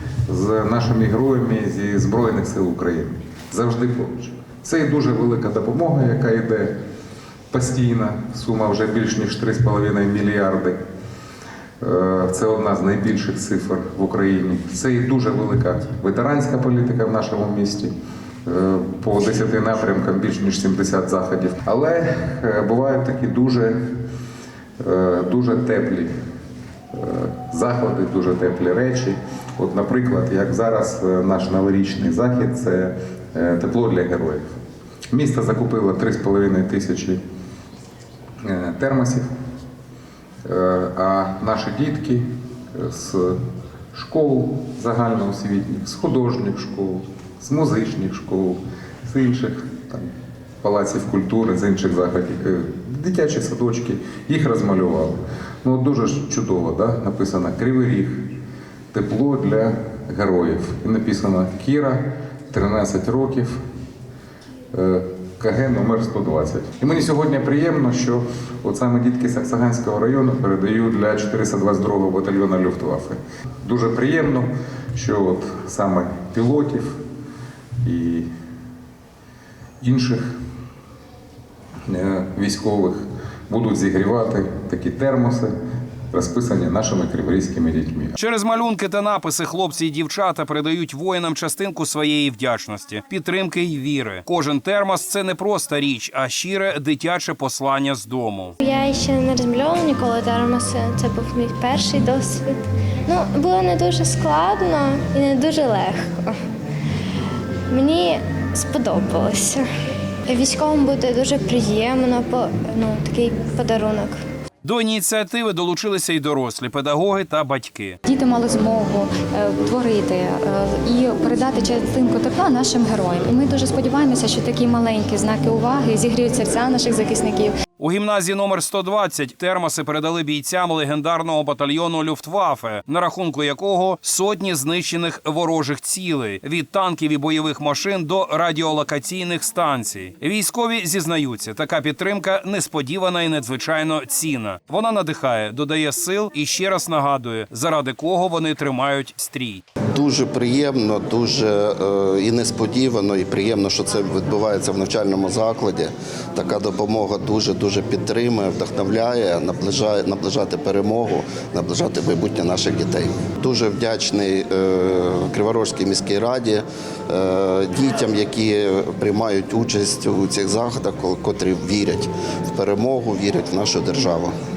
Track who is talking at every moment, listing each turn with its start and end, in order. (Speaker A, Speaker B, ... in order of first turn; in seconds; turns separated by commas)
Speaker A: 0.3-6.7, Speaker A: 7.5-10.8, Speaker A: 11.8-17.9, Speaker A: 18.4-23.8, Speaker A: 24.8-26.1, Speaker A: 26.9-34.4, Speaker A: 35.1-37.2, Speaker A: 38.4-39.2, Speaker A: 40.4-43.4, Speaker A: 43.9-50.1, Speaker A: 50.6-58.2, Speaker A: 58.9-63.6, Speaker A: 64.7-77.0, Speaker A: 77.8-78.3, Speaker A: 79.8-80.2, Speaker A: 81.9-85.5, Speaker A: 86.1-88.2, Speaker B: 88.2-98.5, Speaker C: 98.6-102.5, Speaker C: 103.1-106.4, Speaker C: 107.7-109.7, Speaker C: 110.3-114.2, Speaker B: 114.6-118.0, Speaker D: 118.0-127.5, Speaker B: 127.8-149.6, Speaker E: 149.9-174.3